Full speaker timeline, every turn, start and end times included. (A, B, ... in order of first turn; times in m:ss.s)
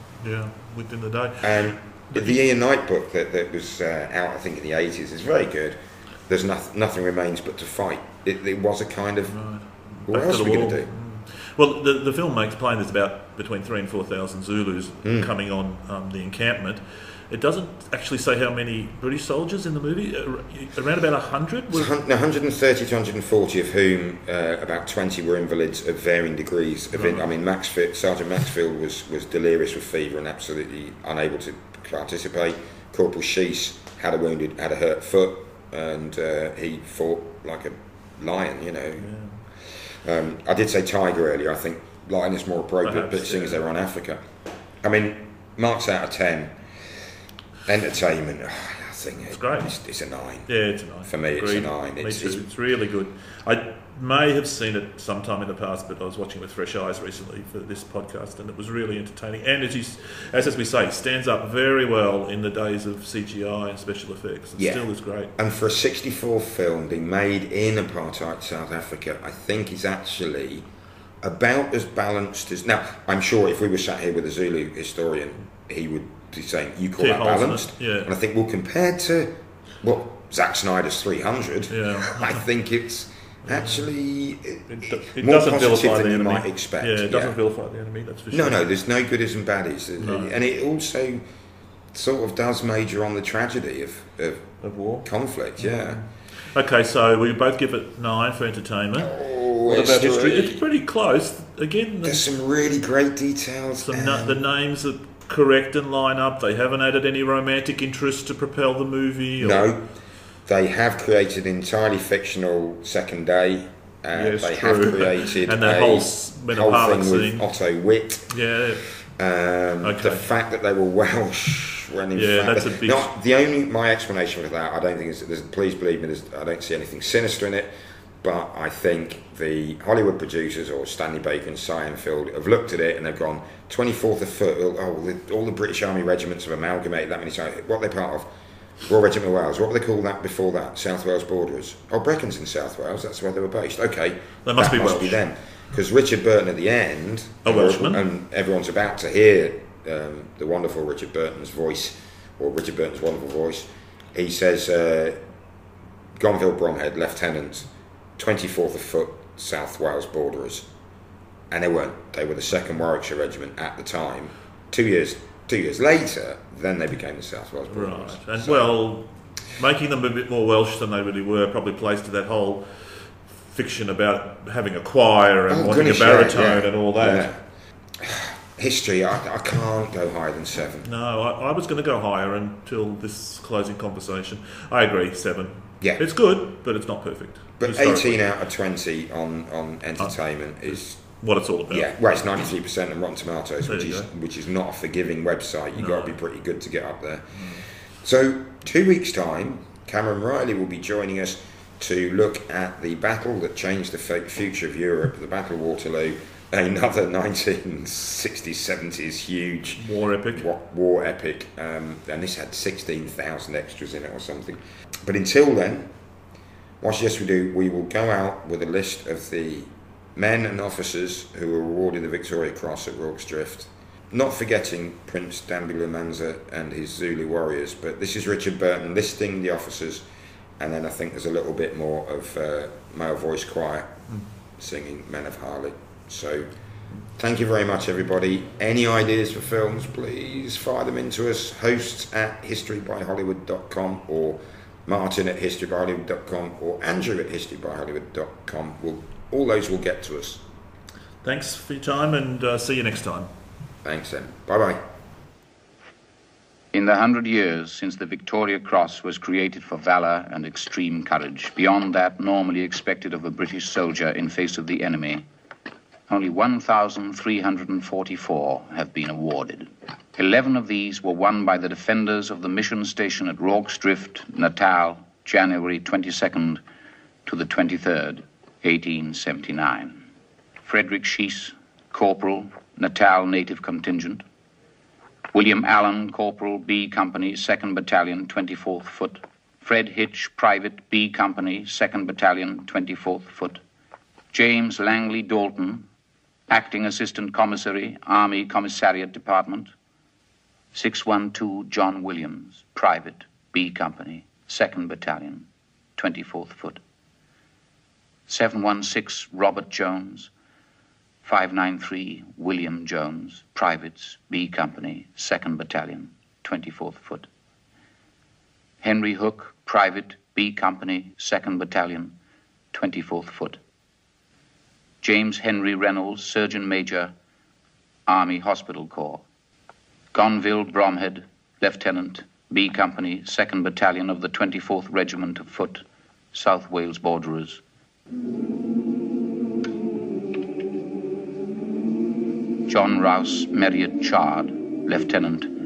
0:00.2-0:01.5 A
0:01.4-0:09.4 B
0:02.1-0:02.4 A
0:09.3-0:21.9 A
0:10.1-0:10.9 B
0:15.0-0:15.3 B
0:21.7-0:39.1 B
0:26.9-0:27.3 A
0:39.0-0:39.4 A
0:39.9-0:44.2 B
0:42.8-0:43.6 A
0:44.8-0:46.6 B
0:47.6-0:50.5 B
0:49.3-0:49.7 A
0:50.5-1:05.3 A
0:51.0-0:52.4 B
1:04.6-1:10.7 B
1:11.2-1:27.4 B
1:17.0-1:18.1 A
1:21.7-1:22.4 A
1:23.5-1:23.9 A
1:24.7-1:28.6 A
1:28.3-1:31.2 B
1:30.0-1:30.4 A
1:31.9-1:36.0 B
1:34.6-1:35.1 A
1:35.6-1:42.2 A
1:39.0-1:40.6 B
1:42.0-1:44.4 B
1:43.8-1:49.7 A
1:49.4-1:49.8 B
1:50.4-1:58.3 B
1:54.1-1:57.4 A
1:58.3-1:58.9 A
1:59.0-2:18.3 B
1:59.8-2:00.3 A
2:02.1-2:03.1 A
2:18.8-2:35.2 B
2:24.4-2:25.2 A
2:27.4-2:28.0 A
2:36.2-2:40.7 B
2:41.5-2:48.8 B
2:47.7-2:57.3 A
2:55.5-2:57.4 B
2:58.0-3:00.9 B
3:00.8-3:08.2 A
3:07.6-3:11.0 B
3:10.7-3:11.9 A
3:11.7-3:35.9 B
3:13.6-3:14.1 A
3:15.8-3:16.2 A
3:17.3-3:17.6 A
3:29.8-3:30.5 A
3:36.8-3:50.0 B
3:50.6-3:54.0 B
3:54.6-3:56.5 B
3:57.1-4:10.4 B
4:11.2-4:13.3 A
4:13.8-4:14.8 B
4:16.7-4:25.2 C
4:26.1-4:36.6 C
4:37.2-4:40.0 C
4:40.6-4:44.2 C
4:45.3-4:53.6 C
4:54.3-4:55.8 C
4:56.5-4:59.7 C
5:00.7-5:06.8 C
5:08.3-5:10.3 C
5:11.2-5:17.3 C
5:18.8-5:22.2 C
5:22.7-5:23.6 C
5:25.0-5:27.1 C
5:28.1-5:29.2 C
5:30.1-5:37.6 C
5:42.7-5:45.5 C